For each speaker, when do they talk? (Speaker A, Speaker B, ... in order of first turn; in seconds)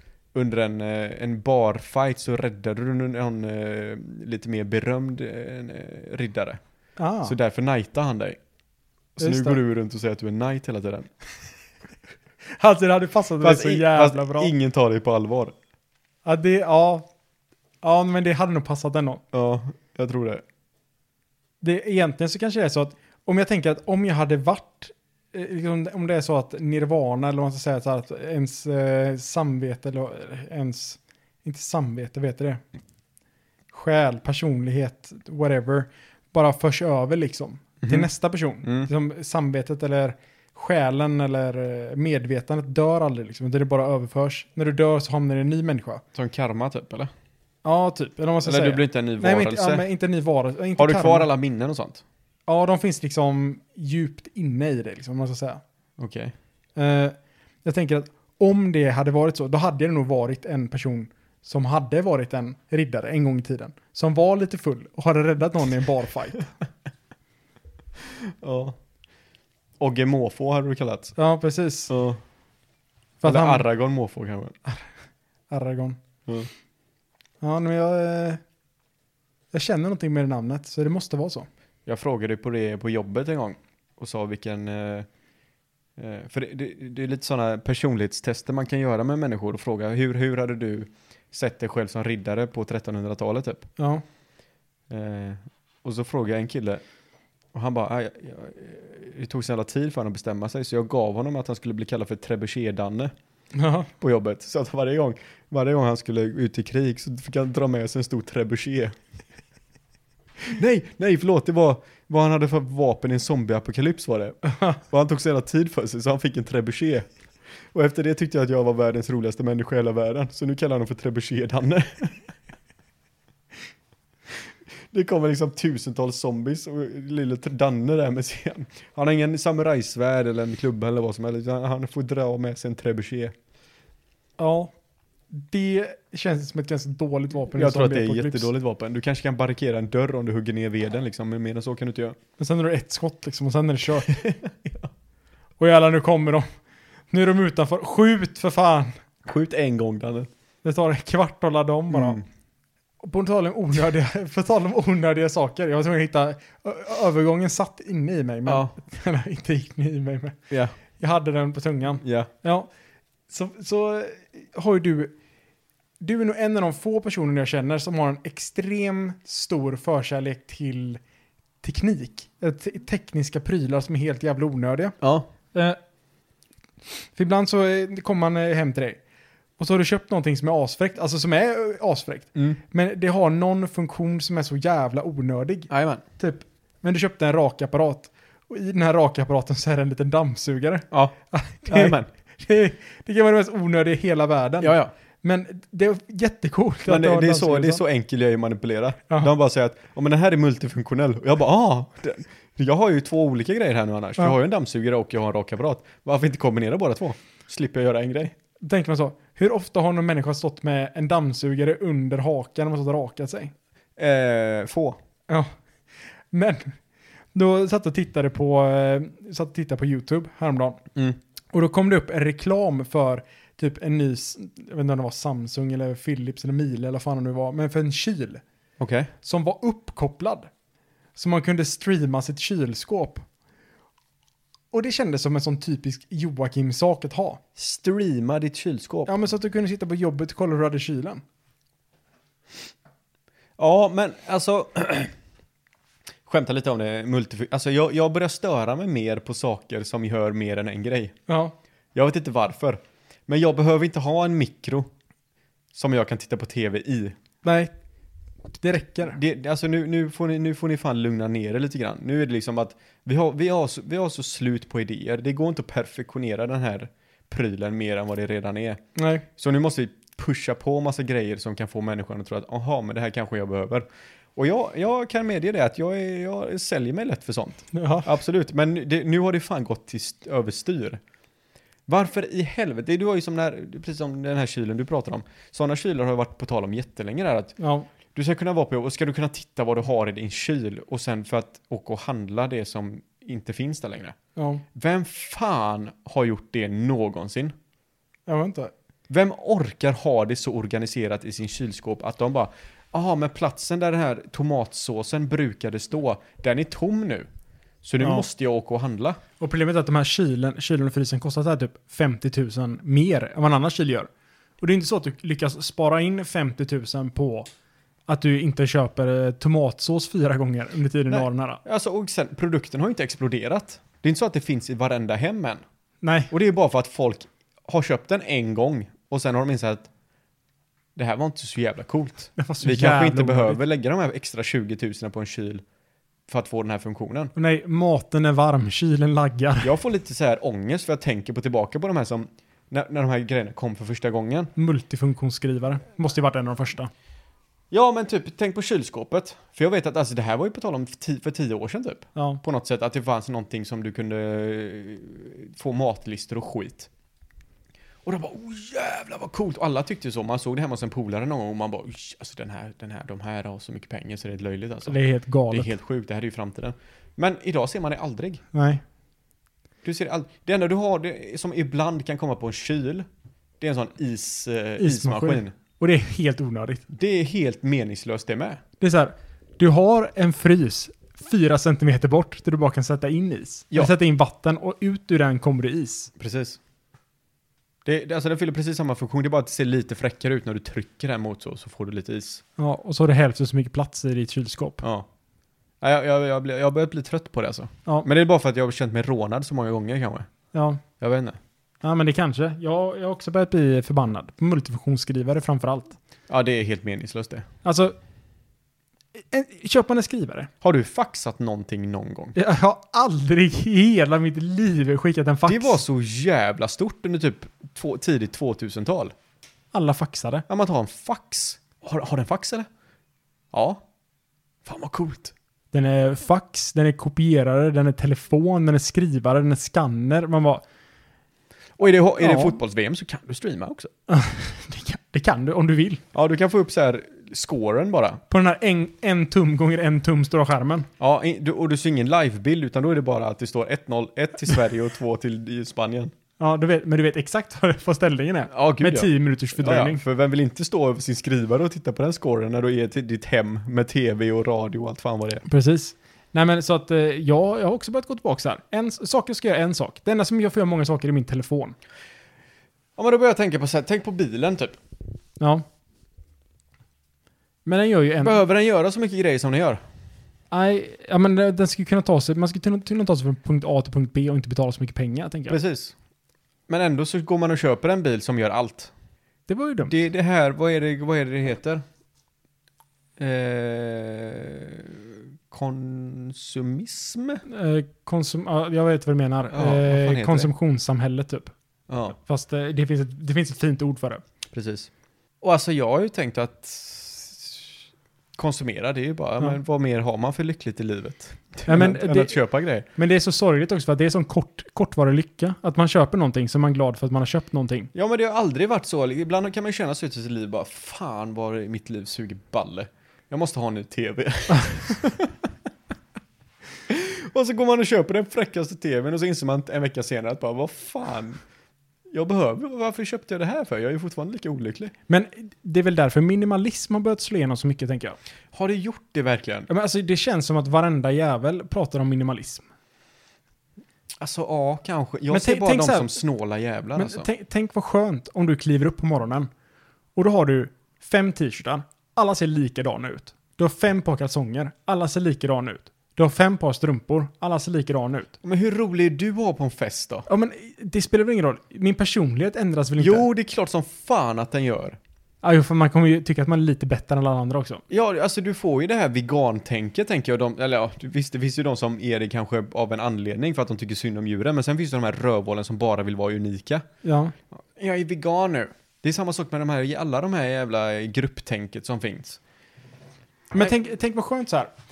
Speaker A: 0.3-6.6, 7.2-8.4, 9.2-11.1, 13.4-15.5, 19.3-20.4, 37.8-38.1, 38.6-38.9, 46.1-47.1, 48.4-49.9, 50.8-52.0, 56.0-56.3, 68.0-68.8, 69.8-71.2, 71.9-72.2, 73.2-74.5, 81.9-85.1, 86.0-93.7, 94.9-96.8, 97.5-103.1, 104.0-109.0, 110.4-117.1, 117.7-122.3, 124.9-133.3, 137.6-142.2, 144.1-144.9, 149.2-150.3, 151.9-152.2, 158.5-158.8, 160.5-160.8, 162.0-162.3, 175.0-175.3, 182.3-182.6, 185.7-186.0, 190.9-192.1, 194.6-194.9, 196.9-208.3, 214.0-215.0, 228.8-229.1, 237.6-239.2, 243.6-245.1, 246.3-251.1, 251.9-254.9, 255.7-257.1, 259.1-268.8, 269.4-273.9, 274.4-281.0, 281.9-287.5, 288.1-294.1, 294.7-297.5, 299.1-307.3, 307.8-309.2, 321.1-325.6, 326.3-329.9, 331.0-335.6, 336.3-337.3, 339.6-344.5, 347.7-356.9, 358.1-365.0, 365.5-368.4, 369.8-373.1, 373.6-375.5, 376.9-378.6, 386.2-386.6, 387.9-392.4, 394.8-395.1, 395.8-400.3, 401.0-401.4, 406.3-407.5, 410.6-412.4, 415.5-419.1, 420.5-422.7, 423.5-423.8, 424.6-425.3, 431.8-433.9, 436.1-438.2, 441.0-446.1, 448.5-455.4, 463.0-464.8, 468.2-469.8, 475.5-475.9, 476.7-478.9, 479.9-481.8, 483.2-487.4, 489.5-490.5, 491.9-492.1, 494.5-494.9, 495.4-497.8, 498.4-502.9, 507.9-515.5, 516.9-521.4, 522.1-524.9, 528.5-529.7, 534.2-537.3, 548.4-550.3, 553.0-555.0, 557.9-566.9, 567.5-572.4
Speaker B: 7.0-7.3, 9.2-9.6, 12.6-14.5, 16.2-17.1, 17.8-19.2, 21.6-32.6, 33.7-46.0, 47.6-51.3, 52.5-55.6, 56.8-66.5, 71.2-71.9, 73.2-73.7, 75.5-76.0, 77.4-78.4, 79.5-81.5, 93.8-94.0, 103.5-103.9, 134.4-134.7, 135.3-138.5, 142.4-144.2, 145.6-146.4, 147.1-148.9, 150.6-152.2, 153.0-160.4, 161.0-162.7, 163.3-165.1, 166.0-171.0, 171.6-175.0, 177.2-179.0, 179.6-197.8, 208.6-213.5, 216.3-216.8, 217.3-220.8, 221.5-228.4, 229.2-230.5, 231.2-233.2, 234.7-237.4, 239.1-241.2, 251.3-251.6, 257.4-257.7, 258.6-259.2, 269.0-269.2, 277.7-278.1, 287.6-287.9, 294.4-294.6, 298.3-298.7, 308.0-308.3, 309.4-314.1, 314.6-317.5, 318.1-321.6, 326.0-326.3, 332.4-333.6, 337.4-339.8, 344.6-346.9, 352.1-352.4, 364.9-365.7, 368.5-368.8, 374.8-376.9, 378.8-386.1, 392.6-394.8, 400.5-400.8, 401.8-406.0, 407.6-407.9, 409.2-410.5, 412.4-415.8, 419.7-420.4, 425.7-430.6, 432.2-432.5, 434.1-436.0, 438.3-440.9, 446.4-450.0, 455.5-461.8, 465.4-465.6, 467.7-468.4, 470.5-475.6, 479.5-480.0, 487.5-491.5, 492.1-494.2, 501.7-502.3, 502.9-507.9, 525.1-528.2, 529.7-532.6, 535.3-536.2, 537.0-539.5, 540.2-548.3, 550.3-553.2, 555.4-557.8, 567.0-567.3, 573.5-574.7